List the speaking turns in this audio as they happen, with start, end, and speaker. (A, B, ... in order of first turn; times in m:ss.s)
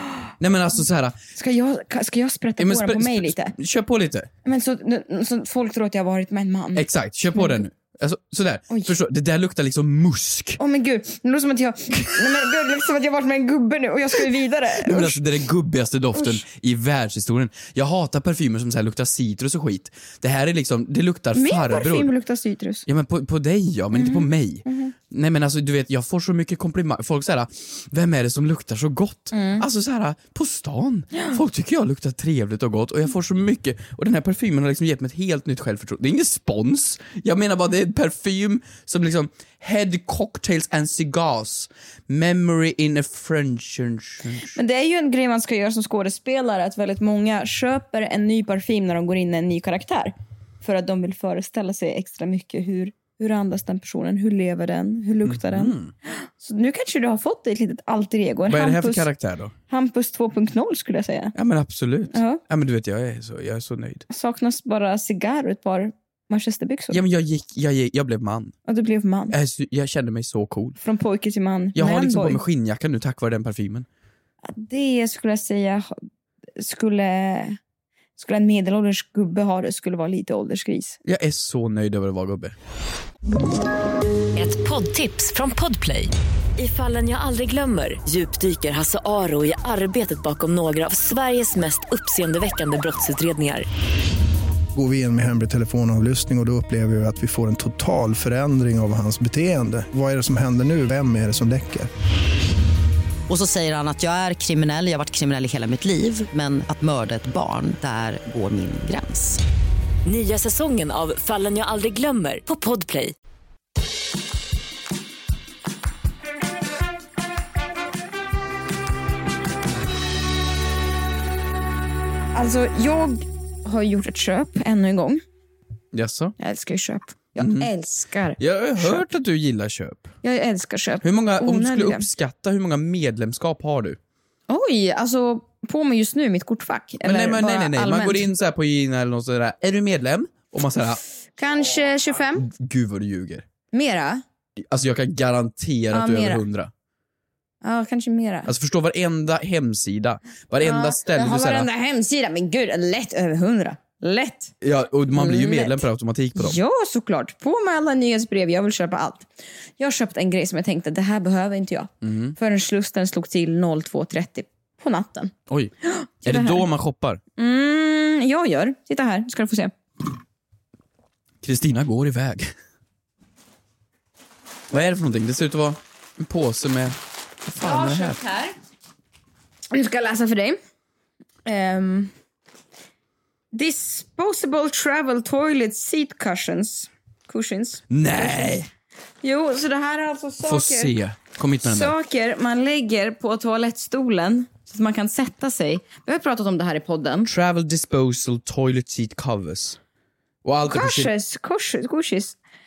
0:00.4-0:01.2 A
0:01.4-0:03.5 B
0:02.6-0:04.3 A
0:04.4-0:07.6 B
0:06.8-0:10.6 A
0:10.6-0:15.2 B
0:14.8-0:22.1 A
0:16.2-0:16.4 B
0:21.4-0:22.9 B
0:22.9-0:44.6 A
0:23.9-0:24.9 B
0:29.3-0:29.6 B
0:44.5-0:59.1 B
0:55.2-0:55.9 A
0:58.5-0:59.5 A
0:59.7-1:01.4 B
1:01.4-1:04.1 A
1:02.1-1:02.4 B
1:04.1-1:07.0 B
1:06.9-1:08.5 A
1:08.7-1:09.4 B
1:09.3-1:10.8 A
1:10.8-1:12.4 B
1:11.8-1:13.9 A
1:14.5-1:15.9 B
1:16.6-1:17.6 B
1:18.2-1:21.0 B
1:21.0-1:22.6 A
1:24.4-1:33.7 C
1:34.7-1:41.9 D
1:43.3-1:49.4 E
1:50.0-1:53.1 C
2:02.3-2:05.2 B
2:05.9-2:06.4 A
2:06.4-2:09.0 B
2:07.4-2:07.7 A
2:08.4-2:10.1 A
2:10.2-2:12.1 B
2:11.0-2:14.0 A
2:14.5-2:18.3 B
2:17.0-2:21.0 A
2:21.4-2:22.5 B
2:22.4-2:23.4 A
2:23.7-2:24.2 B
2:24.6-2:26.7 A
2:25.9-2:26.4 B
2:27.6-2:28.5 B
2:28.5-2:31.7 A
2:30.6-2:34.5 B
2:34.6-2:36.6 A
2:35.1-2:39.3 B
2:39.8-2:46.7 B
2:42.0-2:42.4 A
2:46.2-2:47.2 A
2:47.4-2:49.7 B
2:51.4-2:52.5 A
2:54.7-2:58.2 A
2:57.6-2:58.6 B
2:59.7-3:00.6 B
3:01.4-3:02.1 B
3:03.5-3:08.6 B
3:07.9-3:08.7 A
3:09.2-3:11.0 B
3:10.4-3:11.9 A
3:11.6-3:17.3 B
3:17.3-3:19.8 A
3:20.4-3:21.1 A
3:20.6-3:22.4 B